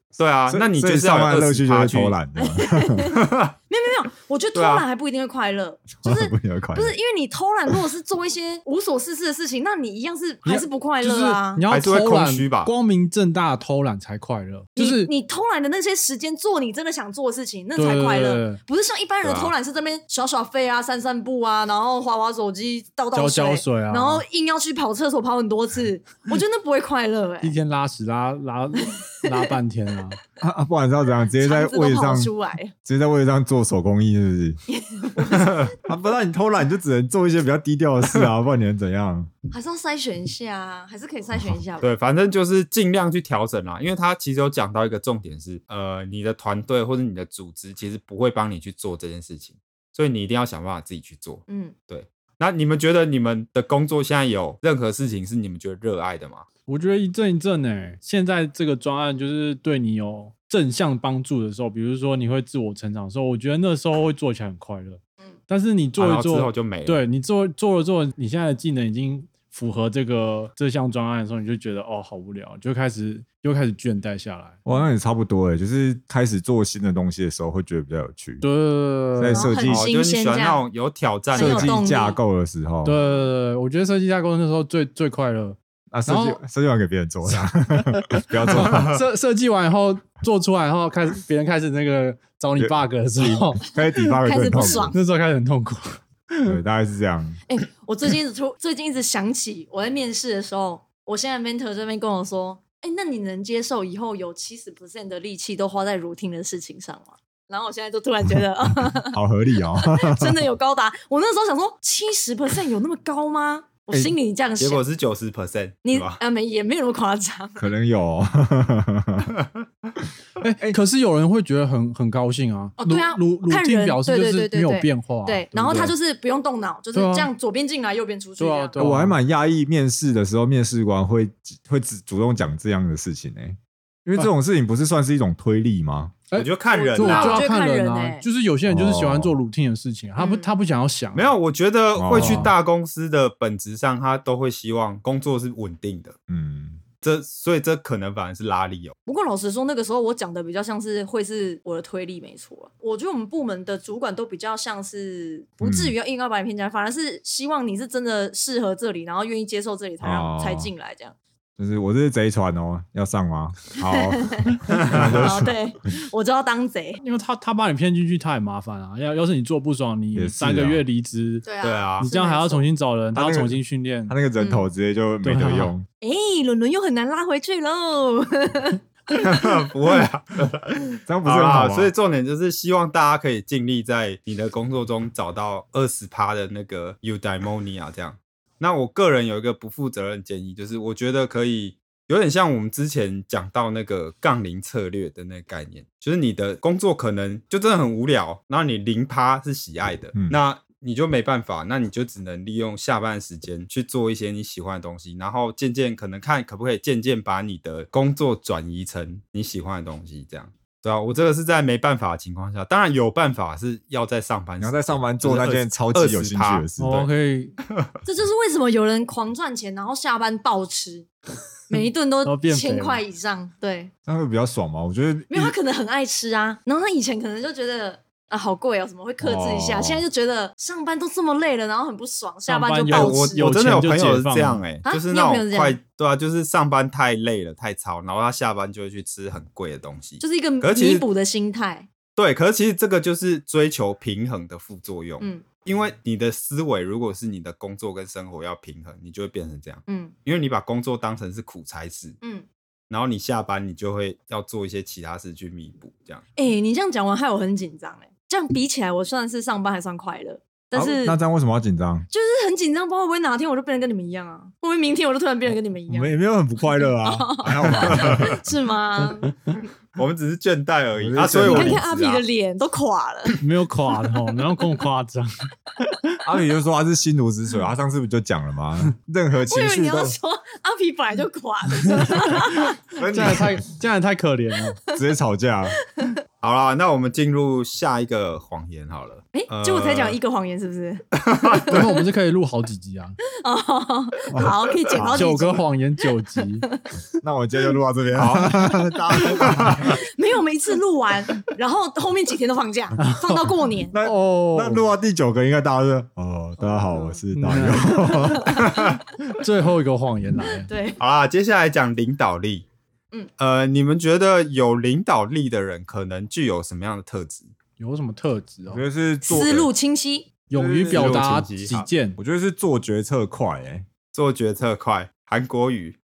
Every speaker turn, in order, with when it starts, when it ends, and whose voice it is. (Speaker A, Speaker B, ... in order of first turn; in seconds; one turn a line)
Speaker A: 0.1-2.1
Speaker B: 0.5-3.1
Speaker C: 2.4-11.6
Speaker A: 3.1-3.5
Speaker A: 4.5-4.8
Speaker B: 6.0-7.0
Speaker D: 10.4-15.1
Speaker A: 11.7-12.7
Speaker C: 14.8-27.6
Speaker D: 17.8-18.6
Speaker A: 19.2-19.5
Speaker D: 23.1-24.2
Speaker D: 27.4-30.2
Speaker C: 28.9-29.5
Speaker B: 30.4-32.3
Speaker C: 31.3-32.7
Speaker B: 32.8-34.6
Speaker C: 34.7-35.7
Speaker A: 35.3-35.7
Speaker B: 35.8-39.3
Speaker C: 39.5-41.9
Speaker A: 41.8-56.5
Speaker C: 51.5-51.7
Speaker D: 56.7-74.6
Speaker A: 66.0-67.0
Speaker B: 74.7-78.4
Speaker D: 78.4-79.5
Speaker B: 79.1-79.9
Speaker C: 79.3-80.6
Speaker A: 79.7-81.9
Speaker C: 81.3-82.2
Speaker B: 81.3-83.0
Speaker D: 82.8-86.4
Speaker B: 85.9-89.0
Speaker D: 87.8-96.6
Speaker A: 88.5-89.0
Speaker B: 92.6-95.0
Speaker C: 94.2-95.0
Speaker B: 96.5-97.4
Speaker C: 97.5-109.2
Speaker B: 108.8-110.4
Speaker C: 109.7-114.8
Speaker A: 114.6-116.2
Speaker C: 115.8-117.7
Speaker B: 117.6-119.3
Speaker D: 120.4-125.9
Speaker C: 122.8-128.8
Speaker D: 126.9-127.3
Speaker D: 128.4-129.2
Speaker B: 128.8-136.2
Speaker D: 136.3-141.3
Speaker A: 136.3-137.4
Speaker C: 136.7-138.2
Speaker B: 138.7-139.4
Speaker C: 140.2-140.5
Speaker A: 141.1-146.2
Speaker B: 141.9-142.5
Speaker D: 142.1-142.5
Speaker B: 146.3-146.8
Speaker A: 147.0-148.9
Speaker C: 149.1-161.1
Speaker B: 155.6-155.9
Speaker B: 160.0-160.7
Speaker B: 161.6-165.5
Speaker C: 163.9-167.0
Speaker A: 164.7-165.1
Speaker D: 167.0-171.5
Speaker B: 170.1-170.8
Speaker C: 171.4-172.7
Speaker A: 171.6-172.1
Speaker D: 172.0-174.2
Speaker B: 173.1-175.8
Speaker C: 174.4-174.7
Speaker D: 175.2-175.7
Speaker C: 176.0-179.2
Speaker A: 179.2-216.7
Speaker B: 181.1-181.9
Speaker B: 214.6-217.1
Speaker D: 216.8-217.6
Speaker C: 218.0-221.1
Speaker C: 221.7-223.9
Speaker D: 222.2-223.0
Speaker B: 224.1-225.5
Speaker C: 225.3-233.4
Speaker B: 229.2-230.0
Speaker D: 232.4-234.6
Speaker A: 232.9-241.1
Speaker C: 234.8-235.8
Speaker C: 240.2-241.9
Speaker A: 242.2-252.2
Speaker C: 245.2-245.4
Speaker C: 249.9-250.1
Speaker C: 252.2-252.5
Speaker A: 252.9-256.2
Speaker C: 256.4-261.2
Speaker B: 260.7-262.1
Speaker C: 262.1-266.1
Speaker B: 265.9-268.4
Speaker C: 266.7-269.4
Speaker A: 269.9-272.2
Speaker B: 271.0-271.8
Speaker C: 271.4-273.4
Speaker D: 273.4-276.1
Speaker B: 276.2-280.1
Speaker C: 279.5-282.8
Speaker B: 283.0-283.6
Speaker D: 283.0-284.8
Speaker C: 284.7-285.0
Speaker B: 284.9-285.8
Speaker A: 286.4-290.2
Speaker C: 289.3-291.8
Speaker A: 291.1-291.9
Speaker D: 291.7-293.2
Speaker C: 293.4-295.6
Speaker B: 294.3-295.3
Speaker D: 295.1-296.7
Speaker B: 297.2-300.0
Speaker A: 298.1-298.6
Speaker C: 299.3-303.9
Speaker A: 299.4-299.9
Speaker D: 303.0-304.9
Speaker B: 303.9-308.6
Speaker D: 307.3-308.5
Speaker C: 308.4-308.6
Speaker A: 308.6-309.0
Speaker D: 309.2-310.7
Speaker C: 310.6-311.0
Speaker A: 311.0-312.6
Speaker A: 313.4-317.5
Speaker D: 317.8-318.8
Speaker B: 318.7-319.7
Speaker C: 319.2-320.3
Speaker D: 320.5-322.2
Speaker B: 320.5-323.9
Speaker A: 320.9-321.9
Speaker A: 324.1-326.0